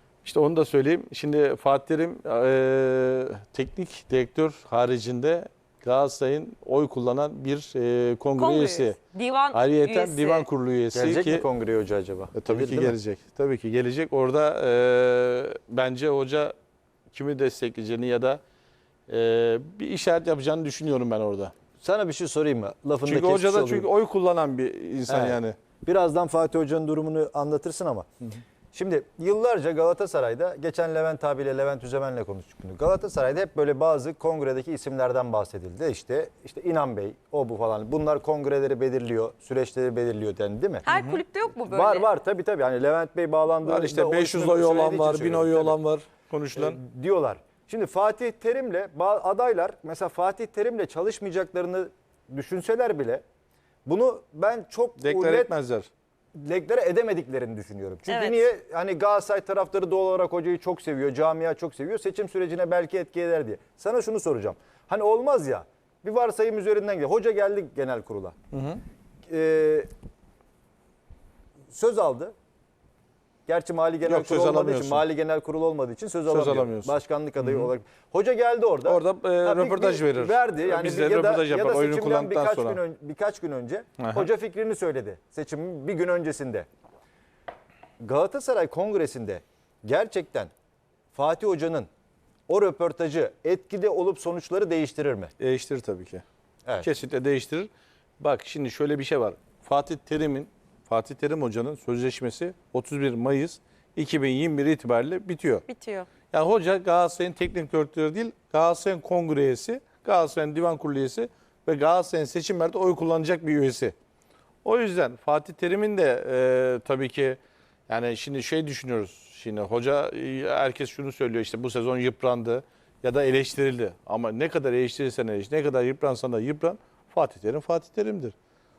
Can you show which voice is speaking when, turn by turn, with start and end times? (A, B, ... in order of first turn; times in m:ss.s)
0:00.2-0:09.0 A
0:08.4-0:10.5 B
0:09.5-0:11.4 A
0:10.9-0:13.0 C
0:12.4-0:16.5 A
0:17.1-0:18.4 A
0:19.1-0:21.5 A
0:21.8-0:23.9 C
0:23.0-0:25.6 A
0:25.1-0:28.1 C
0:28.7-0:40.9 C
0:40.8-0:42.1 B
0:40.9-0:41.2 A
0:41.6-0:45.8 C
0:43.6-0:46.8 A
0:46.6-0:53.2 C
0:53.8-0:55.5 C
0:55.0-0:55.9 A
0:56.4-1:08.4 C
0:58.1-0:58.4 B
1:08.5-1:08.8 A
1:09.3-1:09.9 C
1:11.7-1:12.3 C
1:13.5-1:26.7 C
1:14.0-1:15.0 A
1:16.3-1:17.7 A
1:18.8-1:22.8 A
1:24.0-1:24.3 A
1:28.0-1:30.5 C
1:31.1-1:31.9 C
1:32.5-1:35.3 C
1:35.4-1:36.2 A
1:36.8-1:45.6 A
1:45.7-1:46.1 B
1:46.3-1:53.9 A
1:54.6-2:08.3 A